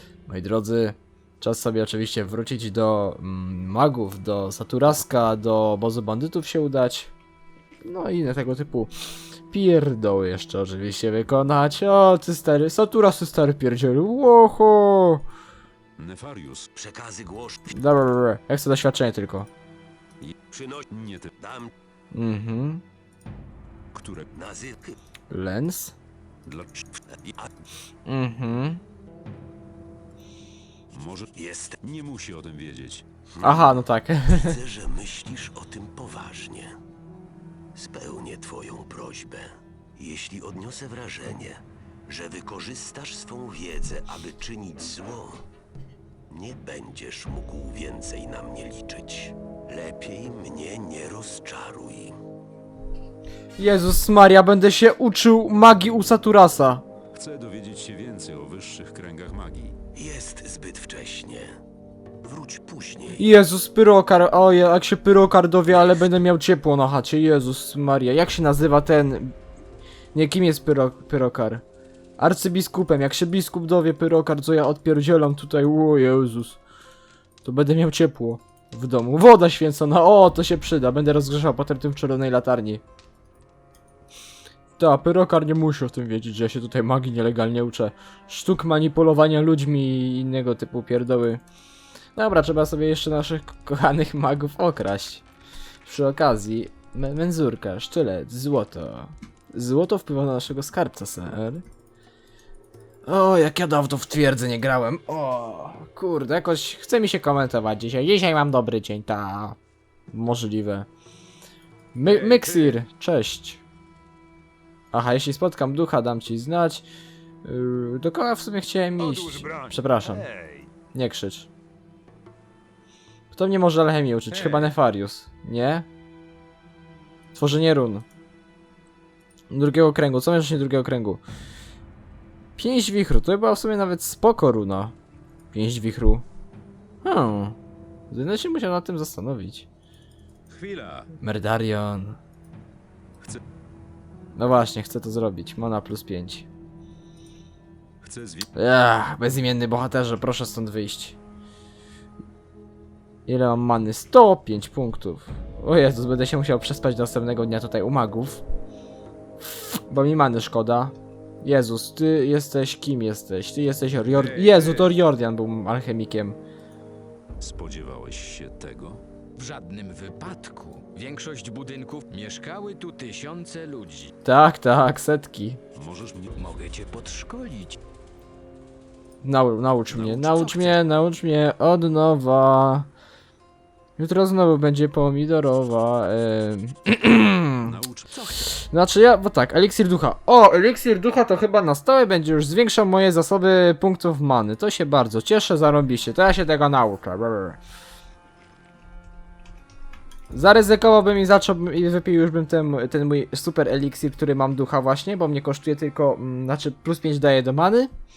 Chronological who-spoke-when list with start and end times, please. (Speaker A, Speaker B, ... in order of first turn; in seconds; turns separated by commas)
Speaker A: 0.3-7.1, Speaker A: 7.8-8.9, Speaker A: 9.5-15.2, Speaker B: 16.0-16.7, Speaker C: 16.8-17.8, Speaker A: 17.7-19.5, Speaker C: 20.5-21.7, Speaker B: 20.9-21.3, Speaker A: 22.1-22.8, Speaker B: 23.9-24.3, Speaker C: 24.3-25.0, Speaker A: 25.3-25.9, Speaker B: 26.5-26.9, Speaker C: 27.1-27.5, Speaker A: 28.1-28.8, Speaker B: 30.9-31.3, Speaker C: 31.4-31.8, Speaker B: 31.8-33.0, Speaker C: 33.3-36.8, Speaker A: 33.4-34.6, Speaker C: 37.8-45.4, Speaker C: 46.3-52.2, Speaker A: 53.6-56.8, Speaker B: 57.1-59.8, Speaker C: 60.0-61.6, Speaker C: 62.2-63.2, Speaker A: 63.2-69.3, Speaker A: 70.1-71.6, Speaker A: 72.2-76.6, Speaker A: 77.4-82.8, Speaker A: 84.8-91.4, Speaker A: 92.2-95.2, Speaker A: 95.8-101.6, Speaker A: 103.1-109.6, Speaker A: 110.1-110.9, Speaker A: 111.9-113.6, Speaker B: 112.0-112.8, Speaker A: 114.9-116.9, Speaker A: 117.4-120.2, Speaker B: 119.0-120.7, Speaker A: 120.9-121.5, Speaker A: 123.3-125.9, Speaker B: 124.3-124.7, Speaker A: 127.3-128.1, Speaker A: 129.5-131.2, Speaker A: 132.6-134.9, Speaker A: 135.5-136.2, Speaker A: 137.0-137.6, Speaker A: 138.1-139.7, Speaker B: 140.5-141.1, Speaker A: 141.2-142.2, Speaker A: 144.4-146.5, Speaker B: 148.0-148.5, Speaker A: 148.6-151.2, Speaker A: 153.3-158.4, Speaker A: 159.4-166.4, Speaker B: 164.1-165.0, Speaker B: 167.4-169.0, Speaker D: 169.4-174.1, Speaker A: 174.2-175.6, Speaker B: 175.8-176.3, Speaker D: 176.4-177.8, Speaker A: 179.2-182.9, Speaker B: 179.9-180.6, Speaker A: 184.0-187.7, Speaker B: 187.6-188.5, Speaker A: 188.5-197.6, Speaker A: 200.3-207.9